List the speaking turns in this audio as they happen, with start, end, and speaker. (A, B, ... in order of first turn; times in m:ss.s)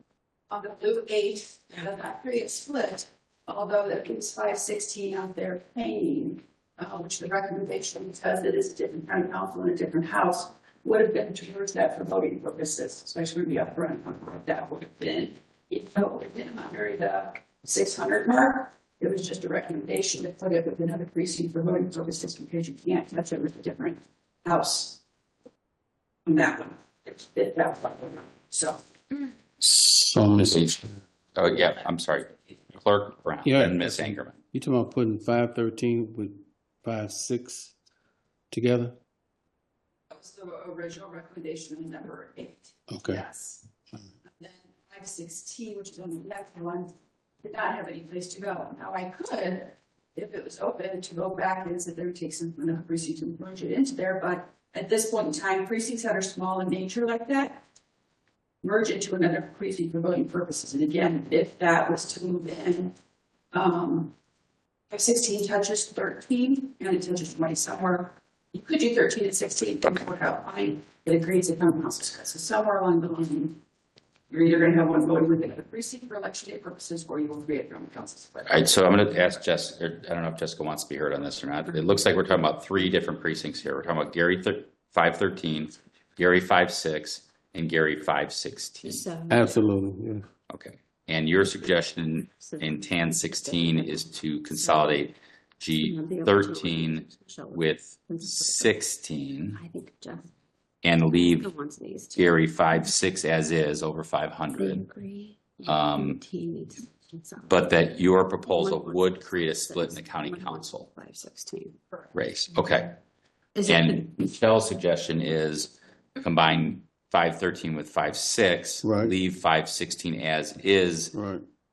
0:00.5-0:25.0 A
0:26.2-0:28.8 A
0:29.6-0:30.8 B
0:30.5-0:30.8 C
0:31.3-0:34.4 C
0:33.4-0:37.8 B
0:38.5-0:39.0 B
0:40.1-0:43.6 A
0:42.9-0:43.2 B
0:44.3-0:46.9 A
0:47.4-0:57.6 A
0:58.6-1:02.9 A
1:03.5-1:04.1 A
1:04.9-1:13.6 A
1:14.3-1:18.7 A
1:18.4-1:29.1 C
1:28.8-1:29.6 D
1:29.3-1:30.3 B
1:30.5-1:39.6 C
1:32.3-1:35.0 D
1:35.7-1:38.8 D
1:39.5-1:40.3 D
1:40.8-1:41.5 C
1:41.1-1:42.9 D
1:42.1-1:44.8 C
1:44.5-1:47.7 D
1:45.6-1:46.2 C
1:47.5-1:50.9 C
1:48.4-1:51.8 D
1:52.1-1:53.0 C
1:53.5-1:54.1 D
1:53.6-2:01.1 C
1:58.8-1:59.1 B
2:01.1-2:01.4 B